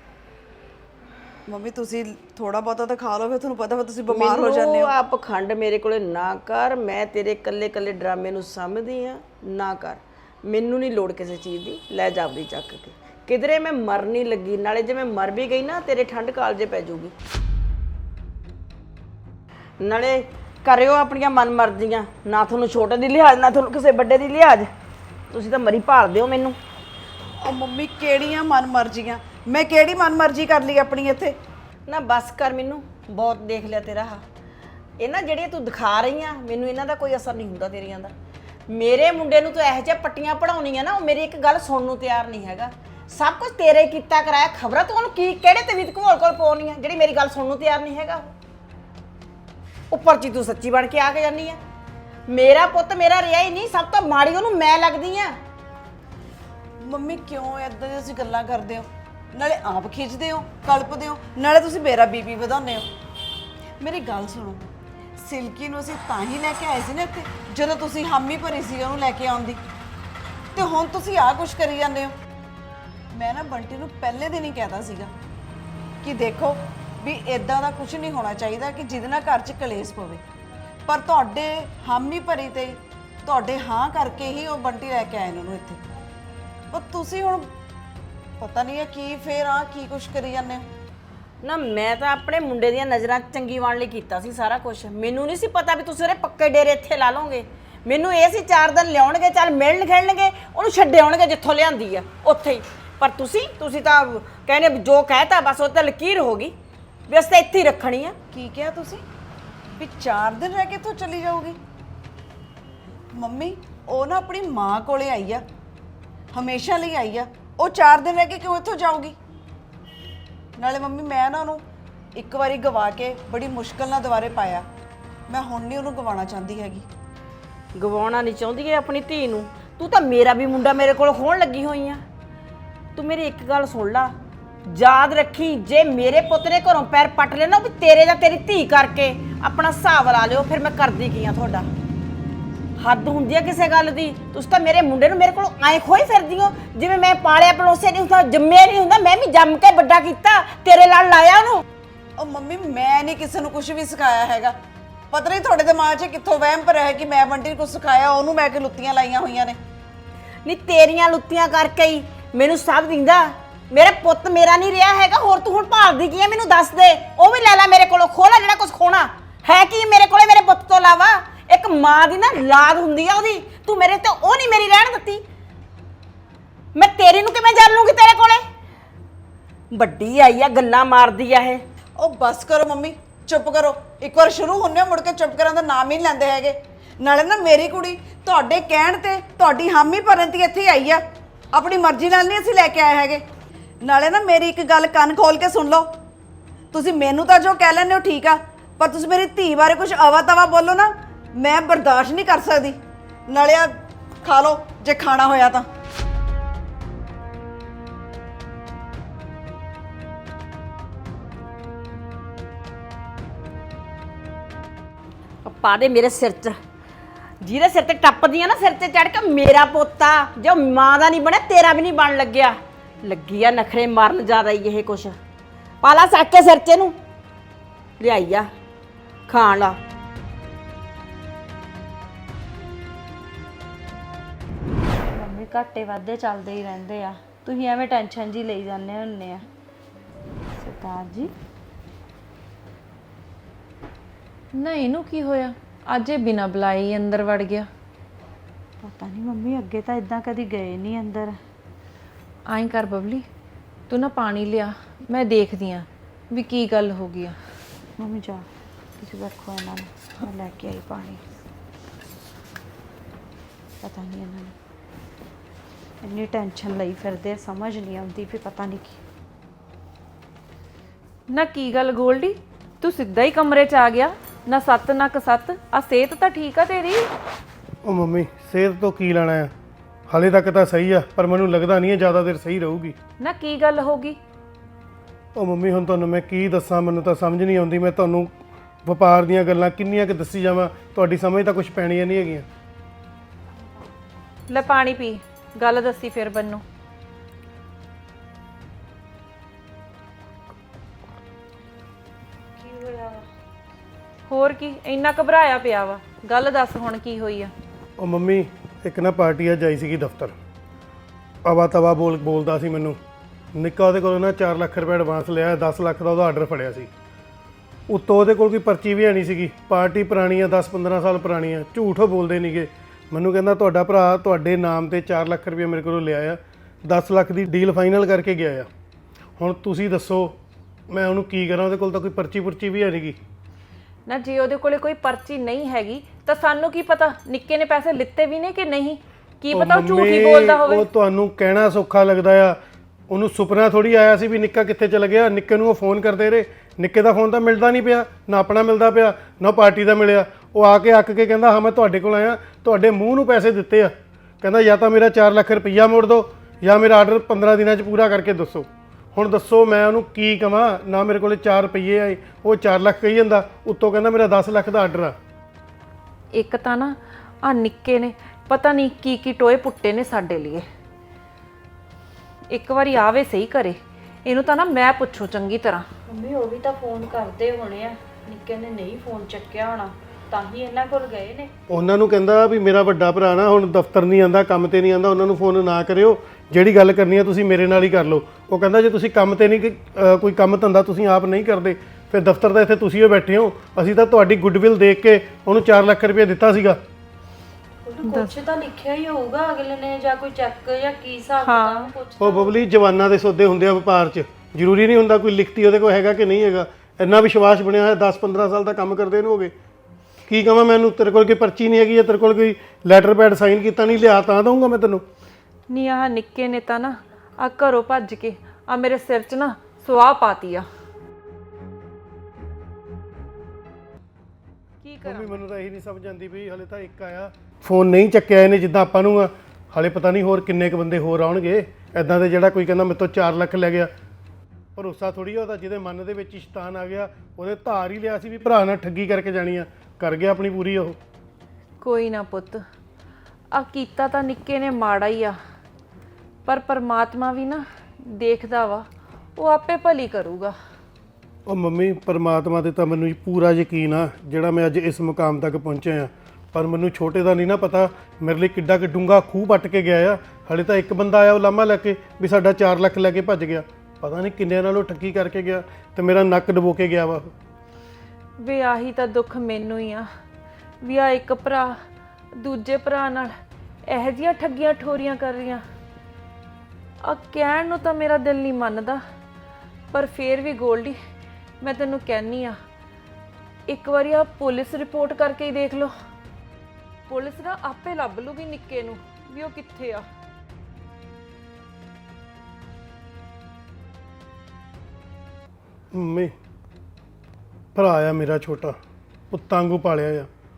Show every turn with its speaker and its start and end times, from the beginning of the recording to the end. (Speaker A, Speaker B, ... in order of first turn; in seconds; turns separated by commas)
Speaker A: 1.5-5.0, Speaker B: 4.1-17.1, Speaker B: 19.8-24.7, Speaker B: 25.3-26.6, Speaker A: 27.4-31.3, Speaker B: 31.9-34.2, Speaker B: 35.0-38.1, Speaker B: 38.7-48.3, Speaker B: 49.9-51.6, Speaker B: 52.3-55.4, Speaker A: 56.8-62.9, Speaker A: 63.8-64.6, Speaker A: 65.2-69.6, Speaker A: 70.5-72.1, Speaker A: 73.1-75.1, Speaker A: 76.0-80.2, Speaker A: 80.9-85.8, Speaker A: 86.7-87.5, Speaker A: 88.4-90.7, Speaker B: 91.4-106.5, Speaker B: 107.1-108.2, Speaker A: 108.3-109.0, Speaker A: 109.8-111.6, Speaker A: 113.2-115.4, Speaker A: 116.3-119.2, Speaker A: 120.6-121.6, Speaker A: 122.2-124.7, Speaker A: 125.3-126.9, Speaker B: 127.8-132.0, Speaker B: 133.0-134.1, Speaker B: 134.7-141.7, Speaker B: 142.8-151.6, Speaker A: 152.2-154.6, Speaker A: 155.1-159.6, Speaker B: 160.4-175.2, Speaker B: 176.8-178.4, Speaker B: 179.7-181.6, Speaker A: 182.0-191.0, Speaker A: 191.5-193.2, Speaker A: 193.8-195.9, Speaker A: 196.7-202.8, Speaker A: 203.3-203.7, Speaker A: 204.2-205.7, Speaker B: 215.4-216.6, Speaker B: 217.4-225.2, Speaker B: 225.8-227.0, Speaker B: 228.0-228.5, Speaker B: 229.3-229.8, Speaker C: 235.2-239.4, Speaker C: 240.6-241.3, Speaker D: 244.6-247.7, Speaker C: 248.8-251.3, Speaker D: 252.5-253.3, Speaker D: 253.9-257.4, Speaker C: 258.0-258.4, Speaker C: 259.0-261.2, Speaker C: 263.8-264.5, Speaker C: 266.0-269.0, Speaker D: 271.3-277.1, Speaker E: 277.9-279.5, Speaker E: 280.1-283.0, Speaker D: 283.2-284.2, Speaker E: 285.4-288.3, Speaker E: 288.9-292.5, Speaker D: 294.5-296.6, Speaker F: 302.6-303.2, Speaker D: 304.3-307.5, Speaker E: 308.0-310.4, Speaker E: 311.4-313.0, Speaker E: 313.6-316.9, Speaker E: 317.9-328.7, Speaker E: 329.4-330.4, Speaker E: 330.9-333.2, Speaker D: 334.1-340.9, Speaker E: 339.5-342.6, Speaker E: 343.1-365.2, Speaker D: 366.4-370.6, Speaker D: 372.5-375.9, Speaker F: 376.1-381.5, Speaker E: 381.7-396.8, Speaker F: 397.9-402.6, Speaker D: 398.0-398.4, Speaker D: 401.4-401.9, Speaker E: 402.2-409.5, Speaker E: 410.3-415.0, Speaker D: 415.7-420.6, Speaker D: 424.8-425.4, Speaker E: 425.0-433.9, Speaker E: 434.8-441.0, Speaker D: 441.8-442.6, Speaker D: 443.5-445.4, Speaker D: 446.5-450.6, Speaker E: 451.5-467.3, Speaker D: 468.4-470.1, Speaker D: 470.8-471.8, Speaker D: 472.4-473.3, Speaker D: 473.9-475.6, Speaker D: 477.1-479.0, Speaker D: 479.9-481.0, Speaker D: 481.6-482.6, Speaker D: 483.7-485.9, Speaker D: 487.1-490.0, Speaker E: 495.9-496.3, Speaker E: 497.8-498.8, Speaker E: 499.3-500.3